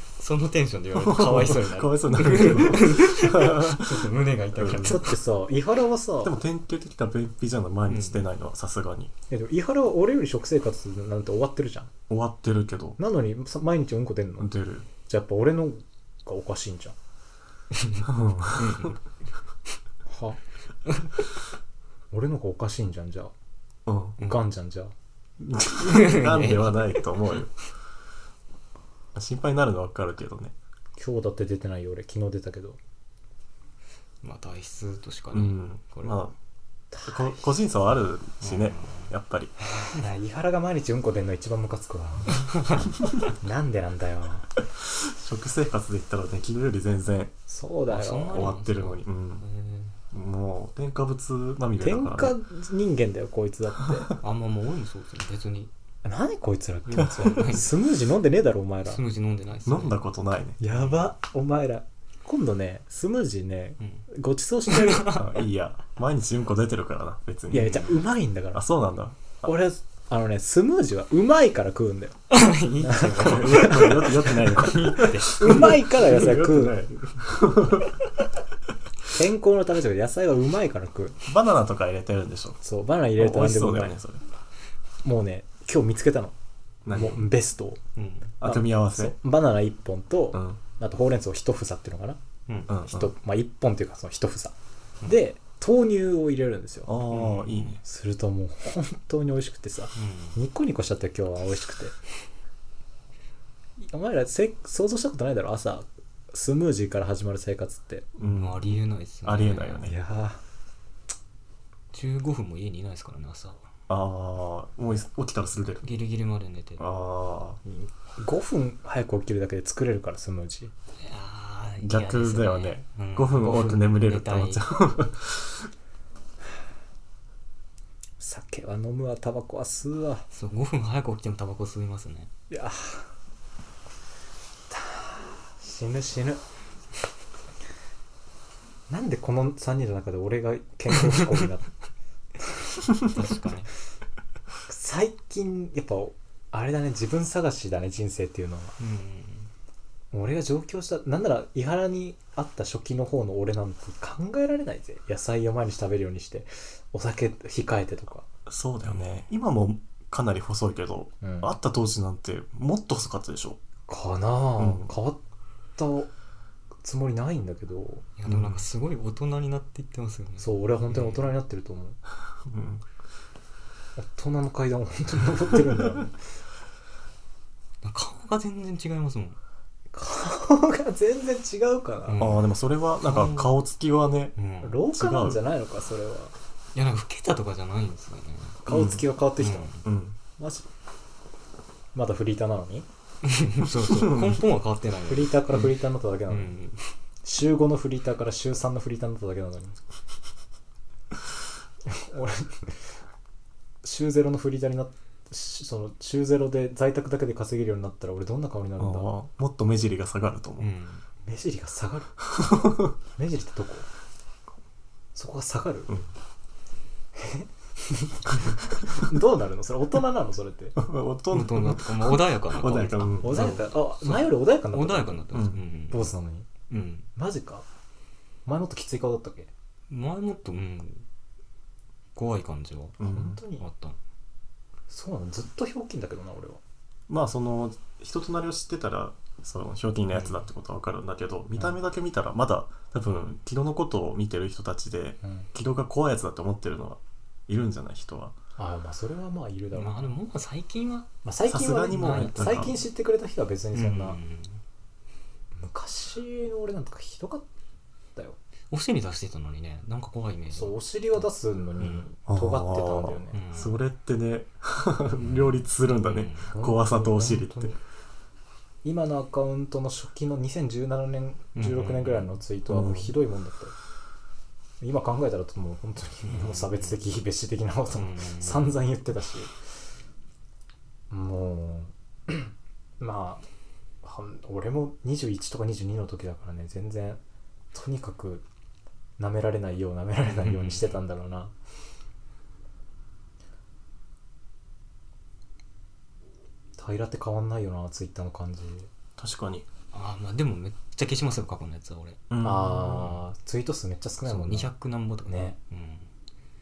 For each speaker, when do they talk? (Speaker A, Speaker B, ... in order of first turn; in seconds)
Speaker A: 0.2-5.2, 7.9-8.2, 17.8-19.0, 25.8-27.1, 34.2-36.2, 38.4-39.1, 47.9-50.0, 54.2-55.7, 57.0-57.7, 58.9-60.0, 60.7-61.0, 64.7-65.2, 72.3-75.7, 88.0-88.3, 97.1-97.8, 100.0-100.4, 108.2-109.8, 111.9-113.7, 115.8-116.8, 121.0-124.6, 130.3-132.3, 142.9-143.7, 148.8-149.5, 168.2-171.3, 177.8-179.4, 182.1-182.4, 183.0-183.6, 184.4-184.8, 186.7-188.6, 189.4-189.8, 193.2-195.7, 196.3-196.9, 210.6-211.0, 221.3-226.1, 226.7-227.1, 229.9-231.0, 232.1-233.0, 233.6-234.0, 240.1-240.4, 249.7-251.1, 251.9-252.8, 253.7-254.6, 258.7-260.8, 263.3-263.7, 265.2-266.5, 271.6-272.3, 276.3-276.9, 277.9-278.7, 290.2-290.9, 299.9-302.2, 304.2-306.1
Speaker B: 0.9-5.0, 6.2-9.1, 12.1-13.0, 14.4-14.9, 18.0-18.9, 23.9-24.2, 25.4-27.5, 29.1-30.5, 35.3-36.3, 37.0-39.5, 44.8-47.3, 48.3-49.4, 50.1-52.4, 59.6-60.6, 65.1-68.0, 68.5-69.5, 73.2-77.9, 81.2-82.6, 83.2-84.2, 86.8-87.3, 88.4-89.2, 90.3-90.6, 92.7-93.1, 96.8-97.8, 108.2-110.0, 113.9-115.9, 116.8-117.6, 121.8-125.7, 158.5-163.6, 164.6-164.9, 168.2-168.6, 172.4-172.8, 182.2-184.4, 184.9-185.4, 188.7-189.0, 189.8-190.2, 193.8-194.4, 208.8-210.7, 212.4-212.9, 220.8-223.5, 225.3-225.6, 233.0-233.4, 237.1-248.3, 251.4-252.8, 262.3-267.7, 272.7-273.1, 299.2-299.6, 302.3-303.0
Speaker C: 4.8-6.3, 9.3-11.9, 13.0-14.5, 15.0-16.9, 20.1-20.4, 22.1-23.3, 24.2-24.9, 31.0-32.8, 36.9-37.4, 39.9-42.5, 43.2-44.5, 47.5-48.5, 51.8-54.1, 56.0-59.0, 60.6-65.2, 67.5-68.6, 69.4-72.2, 72.8-74.0, 75.2-76.8, 79.1-81.2, 82.6-84.0, 85.0-86.3, 86.9-87.8, 88.4-92.2, 92.8-96.9, 97.8-102.0, 103.8-108.1, 109.8-110.4, 117.6-120.7, 128.2-130.2, 132.5-133.1, 134.7-136.4, 138.9-141.7, 144.7-148.8, 150.1-158.2, 161.2-161.5, 163.9-165.2, 165.8-166.1, 166.8-168.1, 170.4-172.0, 174.0-176.1, 179.9-182.3, 184.6-186.3, 188.6-189.7, 190.4-190.7, 191.9-192.9, 195.1-196.6, 197.2-199.8, 201.8-202.9, 203.8-209.1, 211.2-213.9, 215.1-216.0, 217.1-220.8, 223.2-225.3, 225.9-226.5, 227.2-227.7, 228.4-229.5, 233.0-233.6, 234.9-236.6, 248.6-250.2, 251.2-254.2, 255.6-257.5, 260.5-263.4, 266.5-267.8, 268.8-273.7, 274.8-279.5, 281.1-283.4, 284.0-287.2, 287.7-288.4, 289.2-291.5, 296.8-298.9, 302.4-304.7, 305.2-305.6